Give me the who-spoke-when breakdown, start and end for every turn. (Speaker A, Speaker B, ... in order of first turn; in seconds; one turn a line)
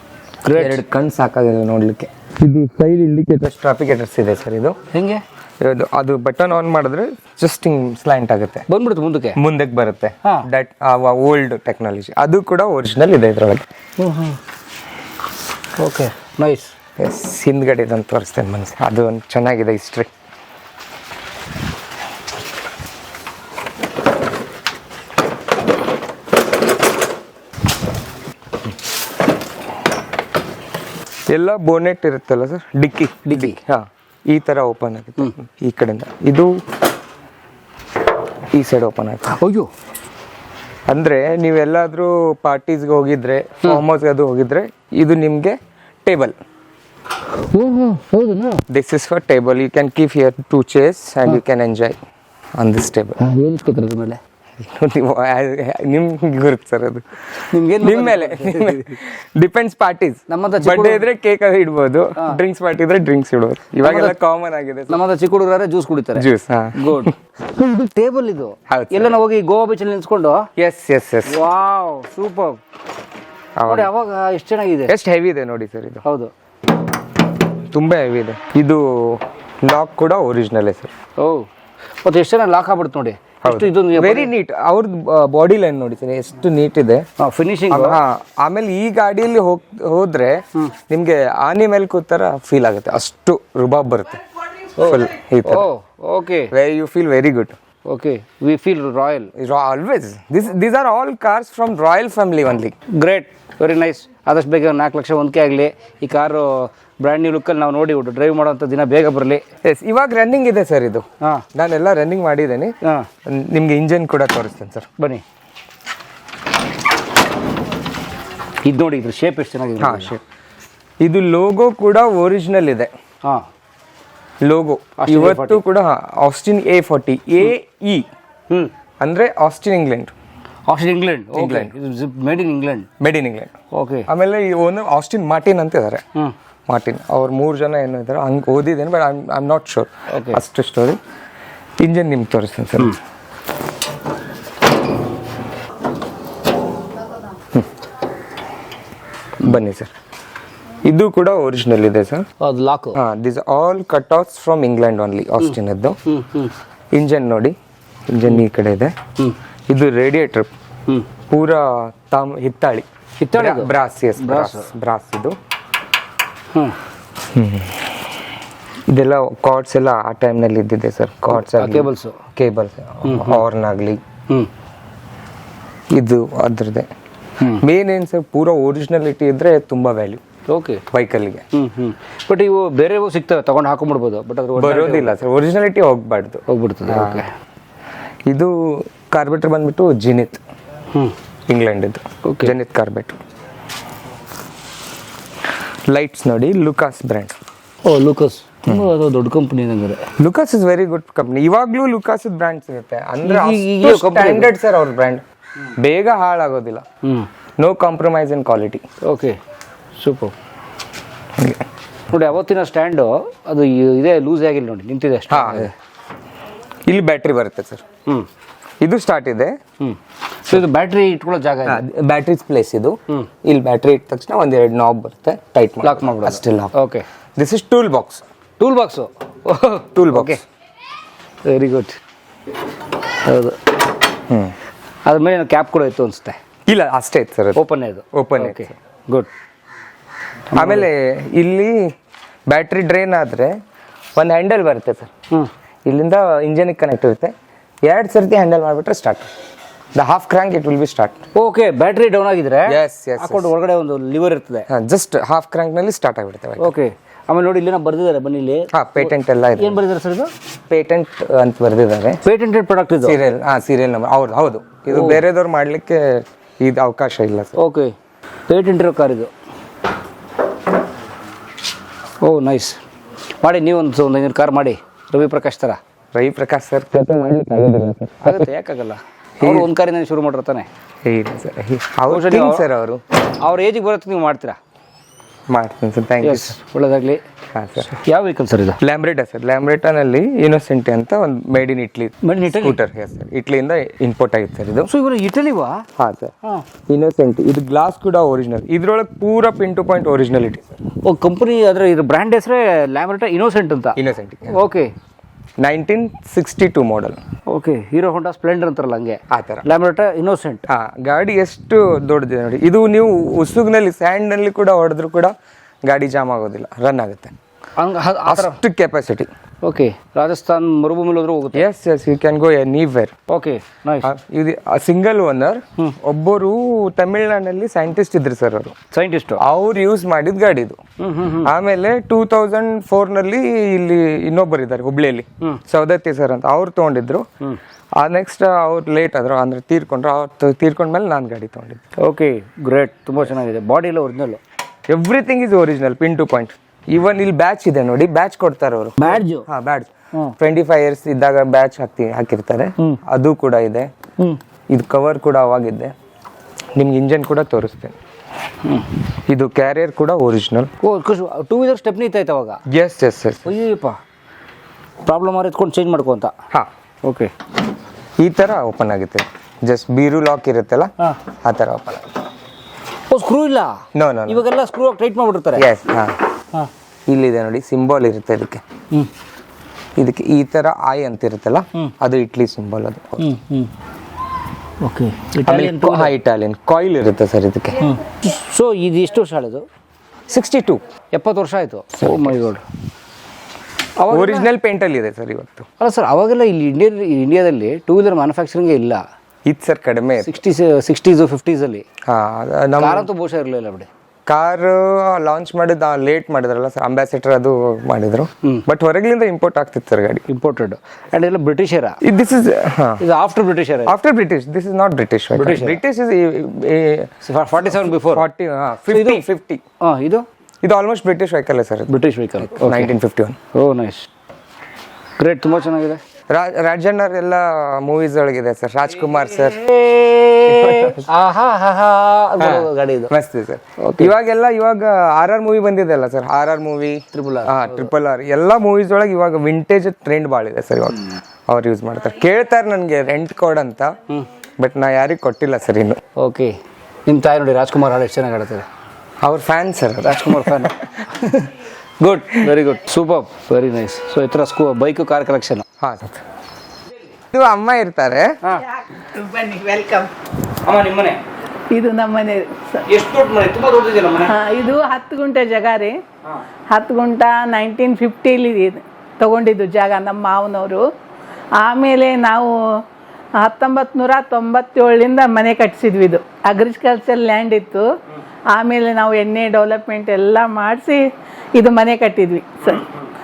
Speaker A: 0.4-0.8
Speaker B: 0.5-4.8
Speaker A: 4.9-5.2
Speaker B: 5.6-8.7
Speaker A: 8.7-9.4
Speaker B: 9.3-13.7
Speaker A: 14.0-14.4
Speaker A: 15.8-16.7
Speaker B: 17.0-20.1
Speaker B: 31.3-36.5
Speaker A: 33.2-33.6
Speaker B: 38.5-39.4
Speaker A: 39.3-39.7
Speaker B: 40.9-46.4
Speaker A: 47.5-48.6
Speaker B: 48.7-52.0
Speaker B: 52.6-53.2
Speaker A: 53.2-54.2
Speaker B: 54.6-57.0
Speaker A: 57.5-59.0
Speaker B: 57.7-65.0
Speaker A: 60.3-61.0
Speaker A: 63.8-64.1
Speaker A: 64.9-70.5
Speaker B: 66.2-67.1
Speaker B: 68.7-69.2
Speaker B: 70.6-71.3
Speaker A: 71.3-72.6
Speaker B: 73.6-73.9
Speaker A: 73.7-74.9
Speaker B: 74.9-76.0
Speaker A: 76.0-76.3
Speaker B: 77.7-80.9
Speaker A: 81.2-81.5
Speaker A: 82.0-84.3
Speaker B: 83.4-87.0
Speaker A: 87.2-88.0
Speaker B: 87.7-94.2
Speaker A: 94.8-96.5
Speaker B: 94.8-95.7
Speaker B: 96.5-97.5
Speaker A: 97.8-99.3
Speaker B: 99.3-102.7
Speaker A: 102.9-109.4
Speaker B: 109.6-112.7
Speaker A: 112.8-113.1
Speaker B: 113.2-114.9
Speaker A: 118.6-120.1
Speaker B: 119.8-120.2
Speaker B: 121.0-122.9
Speaker B: 124.4-128.1
Speaker A: 125.0-125.6
Speaker B: 129.0-130.1
Speaker A: 130.7-132.9
Speaker B: 131.3-131.7
Speaker B: 133.0-133.5
Speaker A: 133.7-134.1
Speaker B: 134.1-136.0
Speaker B: 136.7-141.0
Speaker A: 140.1-140.4
Speaker B: 141.8-143.0
Speaker B: 149.4-149.9
Speaker B: 150.8-152.2
Speaker A: 152.4-153.0
Speaker B: 152.9-156.0
Speaker A: 155.4-156.5
Speaker B: 156.9-157.6
Speaker B: 158.1-158.9
Speaker B: 159.7-160.5
Speaker B: 161.3-165.4
Speaker A: 163.2-164.7
Speaker B: 167.3-168.0
Speaker B: 168.9-174.0
Speaker A: 171.3-172.2
Speaker A: 173.0-173.4
Speaker B: 175.9-176.9
Speaker B: 177.6-180.2
Speaker A: 180.5-180.8
Speaker B: 180.9-181.4
Speaker A: 181.5-185.2
Speaker B: 184.6-187.2
Speaker A: 186.5-187.3
Speaker B: 188.3-190.4
Speaker B: 191.5-193.2
Speaker A: 192.2-192.5
Speaker B: 195.9-197.4
Speaker A: 197.8-200.1
Speaker B: 200.2-205.2
Speaker A: 203.2-204.5
Speaker B: 205.8-206.8
Speaker B: 207.6-208.8
Speaker A: 209.0-209.4
Speaker A: 210.0-210.3
Speaker B: 211.3-211.6
Speaker A: 212.1-215.7
Speaker B: 215.3-215.7
Speaker B: 216.8-217.8
Speaker B: 218.8-219.6
Speaker A: 219.8-221.8
Speaker B: 221.7-226.7
Speaker A: 225.8-227.0
Speaker B: 227.3-228.2
Speaker A: 228.6-230.4
Speaker B: 229.9-230.4
Speaker A: 231.4-232.0
Speaker A: 233.2-233.6
Speaker B: 234.3-234.5
Speaker A: 235.1-236.4
Speaker B: 236.7-238.7
Speaker A: 237.5-239.3
Speaker A: 240.5-240.9
Speaker B: 240.5-241.9
Speaker B: 242.5-243.6
Speaker B: 244.2-245.1
Speaker B: 245.8-247.3
Speaker B: 247.8-249.3
Speaker B: 249.9-251.2
Speaker A: 251.3-254.7
Speaker B: 252.7-253.5
Speaker B: 254.7-256.8
Speaker A: 256.6-260.3
Speaker B: 258.7-259.8
Speaker B: 260.7-262.2
Speaker A: 262.2-263.2
Speaker B: 263.0-267.6
Speaker A: 264.9-265.2
Speaker A: 267.6-267.9
Speaker A: 268.5-269.3
Speaker A: 272.2-272.8
Speaker A: 273.4-275.8
Speaker B: 276.1-278.5
Speaker A: 278.2-280.7
Speaker B: 279.4-279.7
Speaker B: 281.0-283.0
Speaker A: 282.1-282.6
Speaker A: 283.4-284.6
Speaker B: 285.5-286.6
Speaker A: 286.2-287.2
Speaker B: 287.5-287.9
Speaker A: 287.8-288.8
Speaker B: 288.8-294.9
Speaker A: 292.2-292.8
Speaker A: 294.9-295.8
Speaker B: 296.0-296.3
Speaker B: 296.9-300.7
Speaker A: 301.0-304.0
Speaker B: 303.9-304.6
Speaker A: 304.5-304.9
Speaker B: 305.6-307.2
Speaker A: 307.5-310.6
Speaker B: 309.3-309.6
Speaker B: 310.7-317.3
Speaker A: 317.8-318.6
Speaker B: 318.2-319.3
Speaker A: 319.6-321.6
Speaker B: 321.5-323.1
Speaker A: 323.3-324.1
Speaker B: 324.0-328.8
Speaker A: 328.9-329.4
Speaker B: 329.4-330.8
Speaker A: 331.0-331.5
Speaker B: 331.4-337.2
Speaker B: 338.0-341.8
Speaker A: 342.0-344.4
Speaker B: 344.9-353.9
Speaker A: 349.0-349.5
Speaker B: 354.7-355.9
Speaker B: 356.7-357.9
Speaker B: 359.3-360.7
Speaker A: 360.8-362.6
Speaker B: 362.7-363.5
Speaker A: 363.4-364.0
Speaker A: 365.0-366.3
Speaker A: 367.0-367.3
Speaker B: 368.2-372.0
Speaker A: 373.1-375.6
Speaker B: 373.9-374.4
Speaker B: 375.6-376.2
Speaker B: 377.1-378.6
Speaker B: 379.9-383.3
Speaker A: 383.2-383.7
Speaker A: 384.8-386.1
Speaker B: 385.4-387.8
Speaker A: 387.8-389.6
Speaker B: 390.3-390.8
Speaker A: 391.1-392.6
Speaker B: 392.0-392.4
Speaker A: 394.0-394.5
Speaker B: 394.1-395.7
Speaker A: 395.8-399.0
Speaker B: 399.4-400.4
Speaker A: 400.2-401.8
Speaker B: 402.0-403.1
Speaker A: 402.8-403.9
Speaker B: 404.2-410.2
Speaker A: 410.3-412.0
Speaker B: 412.0-413.0
Speaker A: 413.0-413.9
Speaker B: 413.9-417.1
Speaker A: 415.3-415.8
Speaker A: 417.2-418.2
Speaker B: 417.6-419.6
Speaker A: 418.9-419.2
Speaker A: 419.8-420.2
Speaker B: 420.6-423.4
Speaker A: 421.9-422.9
Speaker A: 423.5-424.1
Speaker A: 425.2-426.0
Speaker B: 426.3-429.6
Speaker A: 429.0-433.1
Speaker B: 430.5-431.1
Speaker B: 432.4-444.0
Speaker A: 433.8-434.1
Speaker A: 437.1-437.9
Speaker B: 444.6-446.0
Speaker A: 446.2-446.6
Speaker A: 447.1-448.7
Speaker B: 449.2-450.8
Speaker A: 450.0-455.6
Speaker B: 455.8-456.2
Speaker B: 457.3-458.4
Speaker C: 458.6-460.1
Speaker A: 460.6-461.2
Speaker C: 461.7-462.8
Speaker A: 462.9-464.3
Speaker C: 464.3-466.0
Speaker C: 466.7-470.9
Speaker C: 471.6-472.8
Speaker C: 473.4-477.9
Speaker C: 478.5-482.8
Speaker A: 482.6-483.1